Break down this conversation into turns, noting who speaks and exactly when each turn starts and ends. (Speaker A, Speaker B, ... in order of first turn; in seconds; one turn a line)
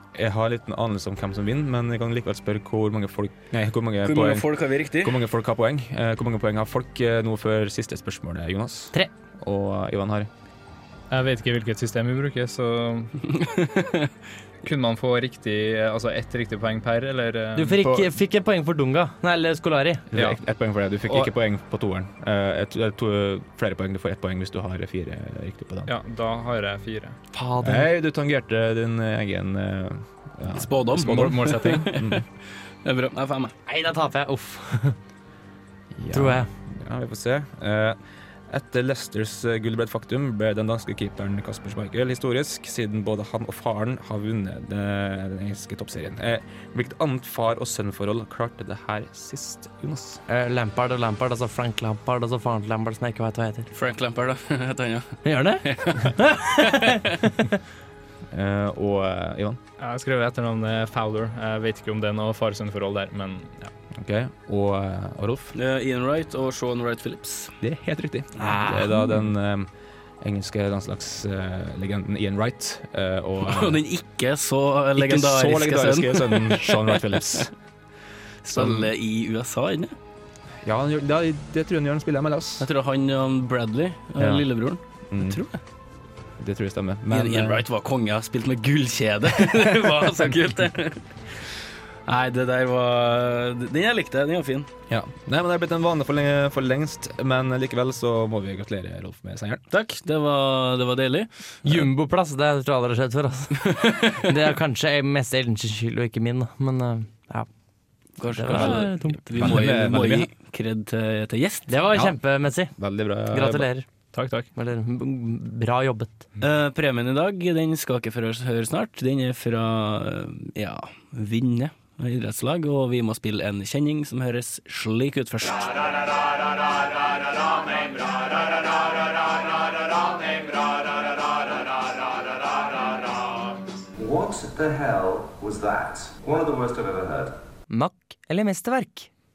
Speaker A: 0.1-10.3
Speaker B: 4.0-5.2
Speaker C: 11.1-13.1
Speaker B: 13.3-14.1
Speaker C: 14.6-17.8
Speaker D: 17.6-20.1
Speaker A: 17.8-18.1
Speaker A: 20.1-25.9
Speaker C: 25.9-27.2
Speaker D: 27.3-27.9
Speaker A: 27.6-32.2
Speaker B: 30.5-32.2
Speaker C: 31.0-31.9
Speaker B: 32.8-33.5
Speaker D: 33.6-35.0
Speaker A: 35.9-50.2
Speaker D: 36.1-36.5
Speaker D: 50.3-53.7
Speaker B: 53.7-57.0
Speaker D: 55.2-57.1
Speaker A: 58.3-59.6
Speaker C: 59.8-63.7
Speaker A: 63.9-65.5
Speaker B: 65.5-67.5
Speaker A: 67.6-69.7
Speaker A: 70.2-73.8
Speaker B: 73.4-77.5
Speaker A: 75.0-77.5
Speaker B: 78.4-79.9
Speaker A: 78.5-78.9
Speaker A: 80.6-82.7
Speaker B: 82.6-85.6
Speaker A: 84.2-84.5
Speaker A: 85.1-85.4
Speaker A: 86.4-87.7
Speaker B: 87.1-91.0
Speaker B: 92.1-94.7
Speaker A: 94.9-99.6
Speaker B: 99.7-101.3
Speaker D: 101.6-107.5
Speaker B: 103.7-104.2
Speaker B: 108.2-111.7
Speaker D: 108.3-109.5
Speaker A: 108.5-110.3
Speaker D: 111.7-112.7
Speaker A: 111.9-112.2
Speaker A: 112.8-113.7
Speaker D: 113.3-113.9
Speaker C: 114.1-114.5
Speaker D: 114.5-116.2
Speaker B: 116.4-126.2
Speaker E: 127.5-133.3
Speaker E: 133.9-137.3
Speaker D: 137.7-139.1